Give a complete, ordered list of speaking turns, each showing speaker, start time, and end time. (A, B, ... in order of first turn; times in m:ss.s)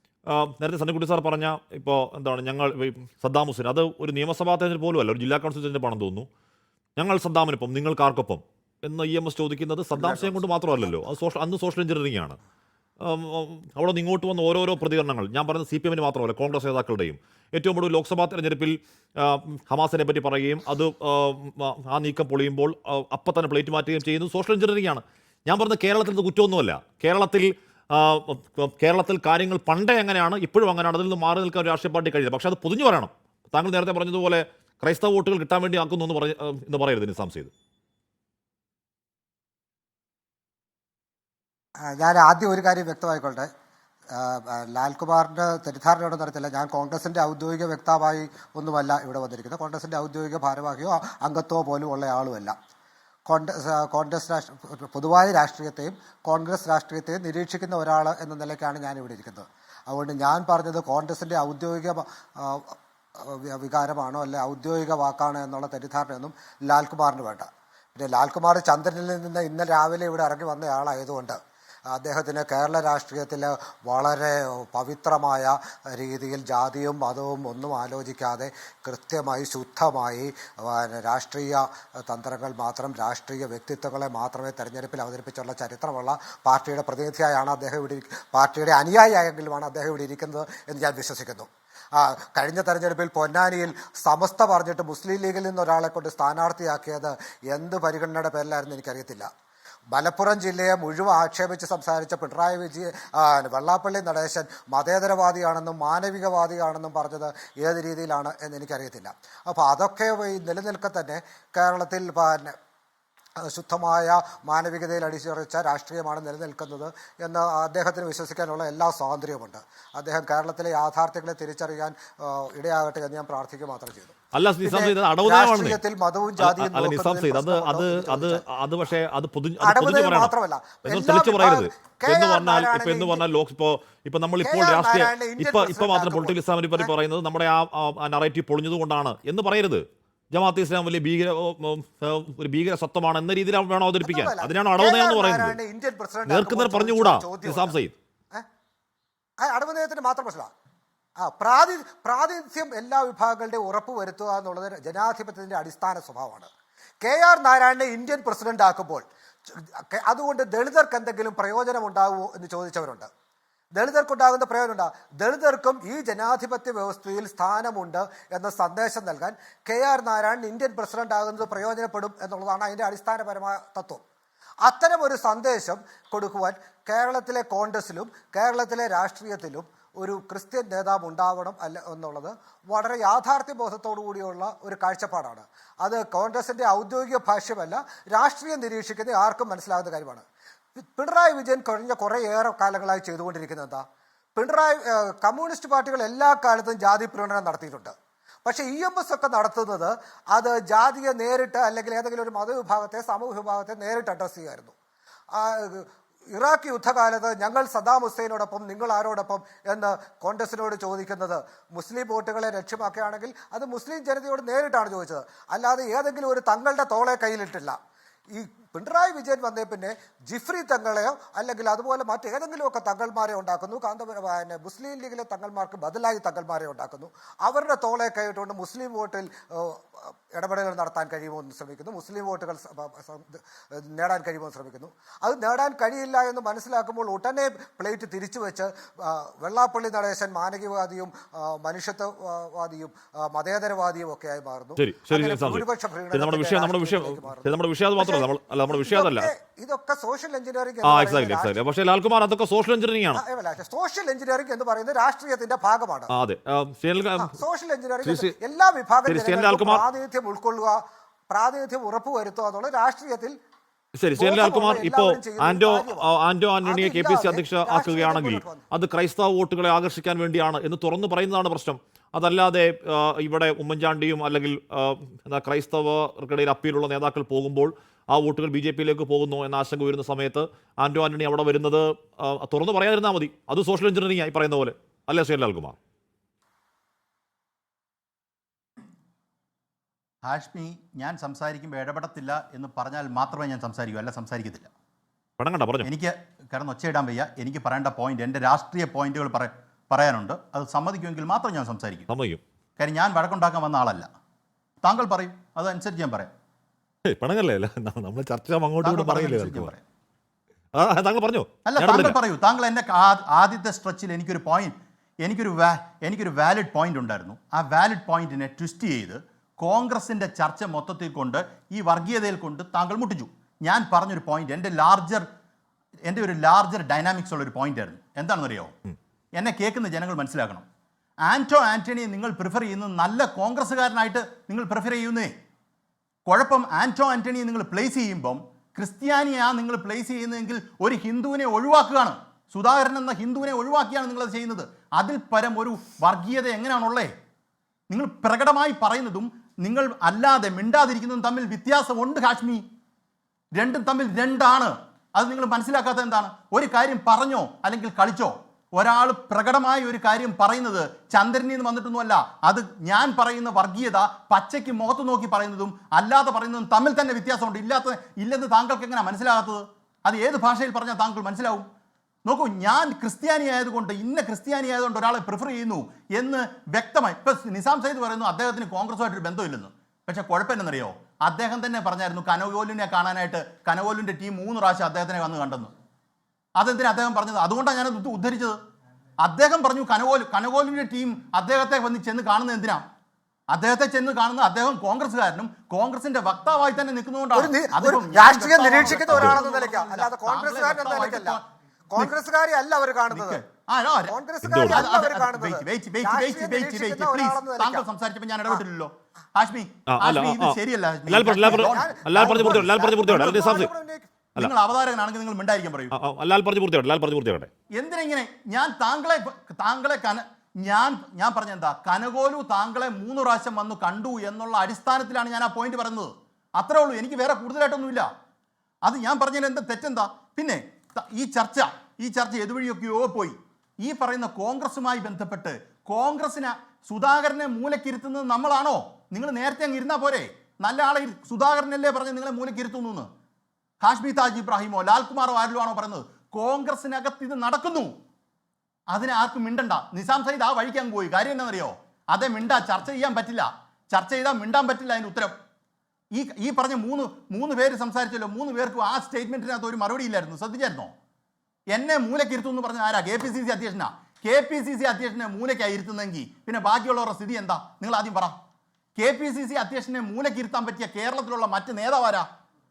0:00.3-0:06.3 A
0:07.0-0:12.4 A
0:10.0-0:10.4 B
0:13.0-0:37.5 A
0:41.8-0:43.5 B
0:44.1-0:52.6 B
0:53.3-1:11.4 B
1:11.9-1:39.3 B
1:39.9-1:52.6 B
1:53.4-2:08.4 B
2:04.3-2:05.8 A
2:06.4-2:10.3 A
2:09.6-2:13.2 B
2:10.8-2:25.6 A
2:14.4-2:16.9 B
2:24.0-2:27.8 B
2:26.3-2:28.0 A
2:29.4-2:30.5 B
2:31.2-2:36.5 B
2:37.0-2:43.1 B
2:43.8-2:54.0 B
2:54.6-3:10.3 B
3:10.8-3:13.8 B
3:14.4-3:17.9 B
3:18.4-3:24.8 B
3:25.3-3:37.8 B
3:38.3-4:11.6 B
4:04.8-4:09.3 A
4:10.8-4:13.2 A
4:13.1-4:16.1 B
4:16.1-4:17.3 A
4:17.2-4:23.4 B
4:18.0-4:18.4 A
4:19.1-4:19.8 A
4:24.0-4:45.8 A
4:24.2-4:26.1 B
4:26.6-4:28.7 B
4:50.2-4:54.7 C
4:55.4-4:55.9 A
4:55.8-5:02.1 C
5:02.1-5:02.4 A
5:02.8-5:04.1 C
5:04.8-5:06.3 C
5:07.1-5:09.7 A
5:08.8-5:09.8 C
5:10.8-5:12.2 A
5:11.6-5:25.3 C
5:26.1-5:28.7 C
5:29.4-5:30.7 C
5:31.3-5:35.3 C
5:36.3-5:47.1 C
5:47.9-5:52.6 C
5:53.6-6:11.7 C
6:12.3-6:25.7 C
6:26.6-6:28.6 C
6:29.2-6:32.8 C
6:33.5-6:41.4 C
6:37.3-6:41.4 B
6:39.1-6:39.4 A
6:41.9-6:43.4 B
6:43.1-6:44.1 C
6:44.1-6:47.8 B
6:44.4-6:44.9 A
6:44.7-6:53.7 C
6:49.9-6:50.6 A
6:51.1-6:53.7 A
6:51.4-6:54.1 B
6:54.4-6:55.9 C
6:55.9-6:57.5 A
6:57.8-7:08.1 C
7:08.8-7:23.1 C
7:23.8-7:27.9 C
7:28.9-7:35.4 C
7:36.1-7:40.9 C
7:41.7-7:48.4 C
7:49.0-7:52.3 C